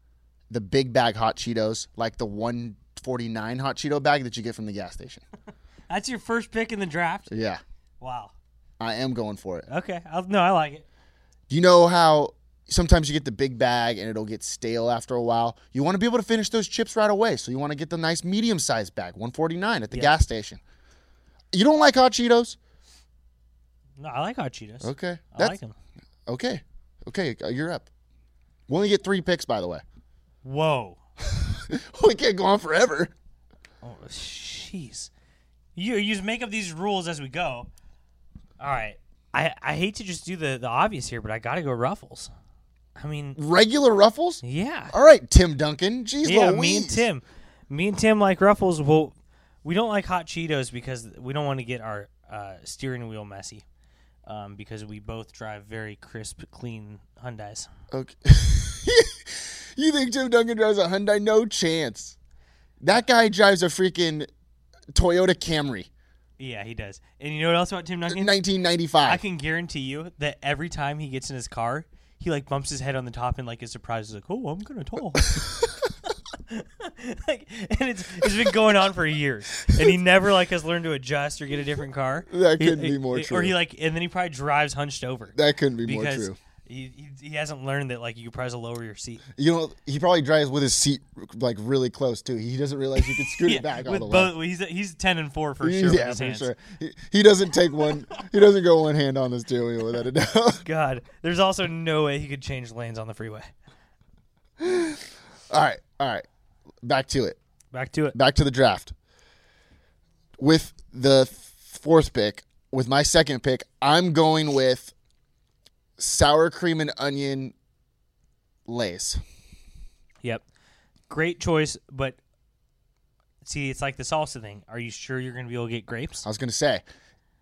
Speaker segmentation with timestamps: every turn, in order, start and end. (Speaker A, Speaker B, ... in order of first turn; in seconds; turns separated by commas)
Speaker A: 0.5-5.2, Speaker B: 5.9-7.3, Speaker A: 7.3-7.6, Speaker B: 8.0-8.3, Speaker A: 8.8-9.7, Speaker B: 9.7-10.8, Speaker A: 11.5-20.6, Speaker A: 21.5-22.6, Speaker B: 24.0-25.7, Speaker A: 24.8-25.6, Speaker A: 26.3-27.9, Speaker A: 28.7-29.8, Speaker B: 30.4-31.0, Speaker A: 31.3-33.1, Speaker B: 33.8-35.1, Speaker B: 35.8-37.7, Speaker B: 38.6-42.3, Speaker B: 43.0-43.4, Speaker A: 43.4-47.1, Speaker B: 44.4-45.0, Speaker B: 46.2-53.6, Speaker B: 54.3-57.7, Speaker A: 57.9-62.2, Speaker A: 62.8-64.3, Speaker A: 64.9-65.9, Speaker B: 66.4-68.4, Speaker A: 68.1-69.2, Speaker B: 69.0-75.3, Speaker B: 76.5-89.2, Speaker A: 82.3-83.6, Speaker A: 85.3-86.4, Speaker A: 89.4-94.3, Speaker B: 93.3-96.5, Speaker A: 95.6-100.6, Speaker B: 100.6-103.5, Speaker A: 104.6-106.3, Speaker A: 106.8-107.4, Speaker B: 107.7-108.2, Speaker A: 108.1-108.9, Speaker A: 110.4-114.9, Speaker A: 116.0-117.5, Speaker A: 118.7-119.2, Speaker B: 121.1-122.2, Speaker B: 123.4-126.3, Speaker A: 126.2-126.8